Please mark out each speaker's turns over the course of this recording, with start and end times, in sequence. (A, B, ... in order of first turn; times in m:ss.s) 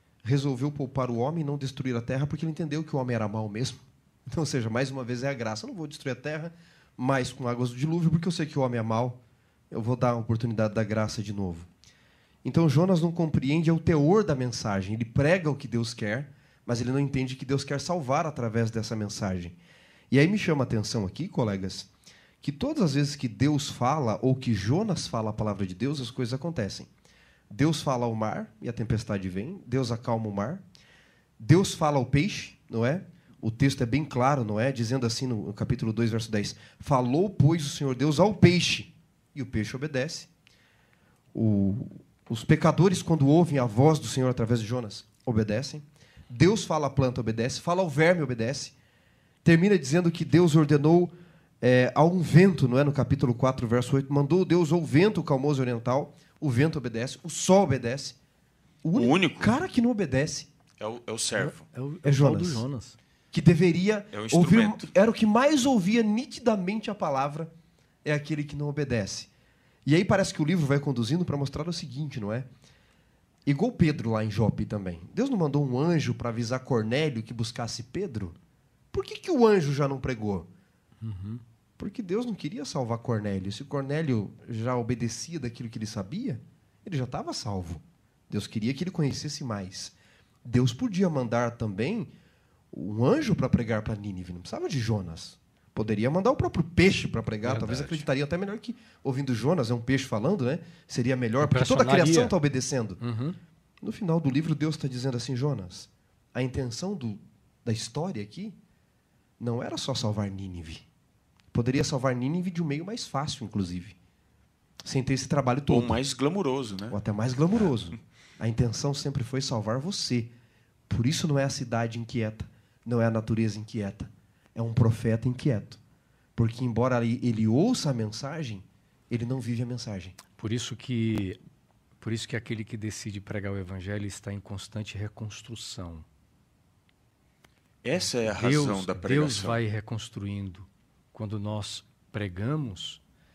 0:00.2-0:09.2 A
0:09.7-0:11.7 A
0:12.4-0:19.6 A
0:20.1-0:21.9 A
0:22.4-0:26.9 A
0:27.5-0:30.6 A
0:31.4-0:40.3 A
0:41.3-0:48.7 A
0:49.4-0:58.2 A
0:58.8-1:00.5 A
0:58.9-0:59.6 B
1:00.8-1:01.6 B
1:01.3-1:03.0 C
1:02.0-1:02.6 A
1:03.3-1:07.5 A
1:04.1-1:04.9 B
1:08.0-1:09.3 A
1:09.8-1:12.5 A
1:13.4-1:18.4 A
1:18.9-1:20.5 A
1:21.0-1:21.4 C
1:21.8-1:32.1 A
1:32.7-1:43.0 A
1:37.4-1:38.0 C
1:41.4-1:42.3 C
1:43.0-1:43.4 C
1:43.8-1:48.6 A
1:49.4-1:50.8 A
1:51.5-1:54.0 A
1:54.8-1:56.0 A
1:55.7-1:57.0 B
1:56.9-2:00.3 A
2:00.9-2:05.8 A
2:06.4-2:10.2 A
2:10.4-2:11.4 C
2:12.0-2:16.0 C
2:17.8-2:19.6 B
2:18.3-2:23.0 C